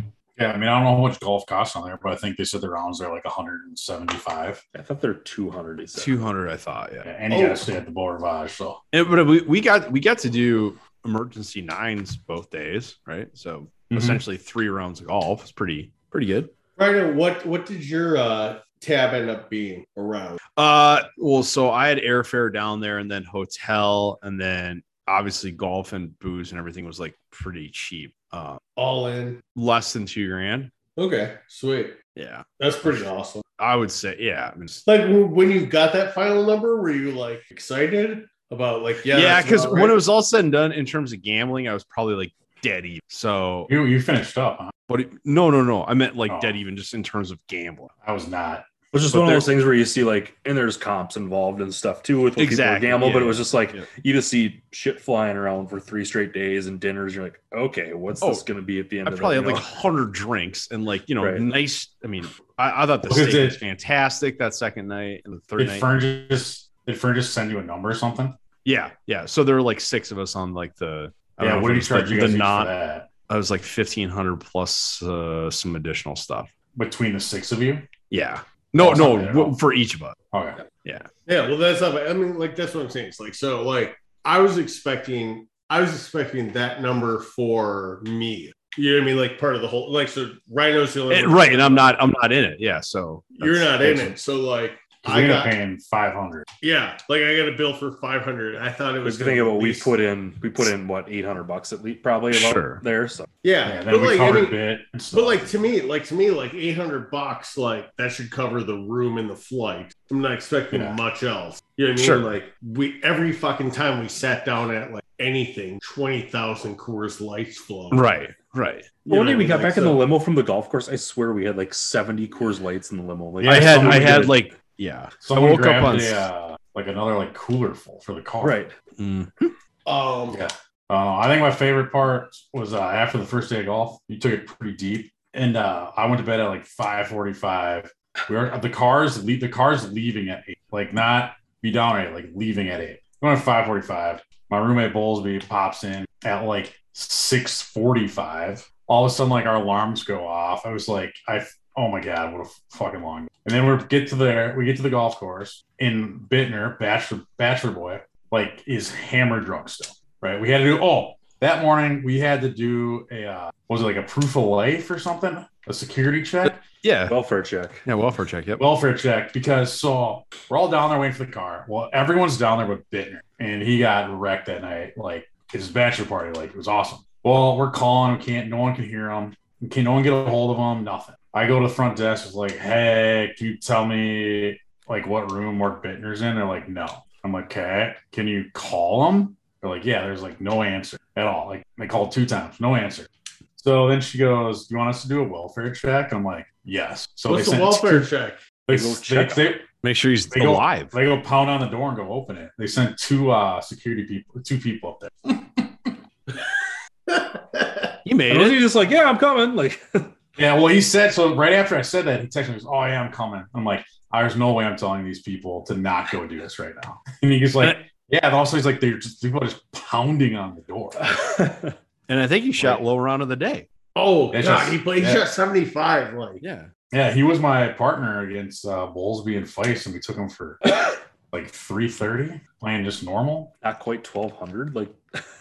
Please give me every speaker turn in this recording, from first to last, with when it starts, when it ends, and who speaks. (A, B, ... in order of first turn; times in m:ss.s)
0:00.4-0:04.6 A
0:04.7-0:06.3 B
0:06.0-0:07.1 C
0:07.0-0:08.8 A
0:07.3-0:07.6 D
0:08.9-0:16.5 C
0:13.9-0:14.2 A
0:16.8-0:20.4 D
0:20.6-0:28.6 C
0:28.8-0:29.4 D
0:29.6-0:30.7 C
0:31.0-0:32.0 D
0:32.2-0:33.1 C
0:32.6-0:33.4 D
0:33.6-0:34.8 C
0:34.9-0:40.0 D
0:39.1-0:43.7 C
0:43.7-0:44.7 A
0:44.9-0:47.9 C
0:46.3-0:46.6 A
0:48.0-0:48.7 A
0:48.9-0:59.7 B
0:49.1-0:49.5 C
0:52.4-0:53.9 C
0:59.0-1:05.9 C
1:01.2-1:01.4 B
1:03.1-1:03.6 A
1:05.6-1:08.4 A
1:08.6-1:12.7 C
1:11.4-1:13.1 A
1:13.3-1:16.5 C
1:16.8-1:17.9 A
1:18.1-1:20.2 C
1:18.8-1:19.6 A
1:20.3-1:20.6 A
1:21.3-1:32.0 D
1:31.1-1:34.1 C
1:33.4-1:35.5 D
1:35.0-1:36.4 A
1:36.6-1:39.9 D
1:39.0-1:43.3 B
1:42.3-1:42.8 C
1:43.4-1:44.6 D
1:43.6-1:45.6 A
1:45.1-1:58.0 D
1:52.0-1:52.3 C
1:57.9-1:58.9 C
1:59.0-2:00.0 D
1:59.1-2:04.4 B
2:03.4-2:04.4 A
2:03.4-2:06.3 C
2:05.2-2:08.6 A
2:08.4-2:08.7 B
2:09.0-2:09.6 C
2:09.9-2:10.4 D
2:10.3-2:46.6 A
2:46.6-2:47.1 C
2:47.1-2:47.8 B
2:47.9-2:48.6 C
2:48.6-3:18.1 A
3:17.3-3:18.4 D
3:18.7-3:19.7 A
3:18.7-3:19.5 B
3:19.8-3:20.9 C
3:20.3-3:25.9 A
3:27.1-3:27.9 D
3:28.0-3:28.6 C
3:28.3-3:30.1 B
3:30.4-3:41.1 A
3:41.0-3:41.8 B
3:42.1-3:43.7 C
3:44.0-3:46.4 D
3:44.3-3:45.3 A
3:46.4-3:46.7 C
3:46.9-3:50.7 A
3:51.3-3:53.5 A
3:53.6-3:55.2 B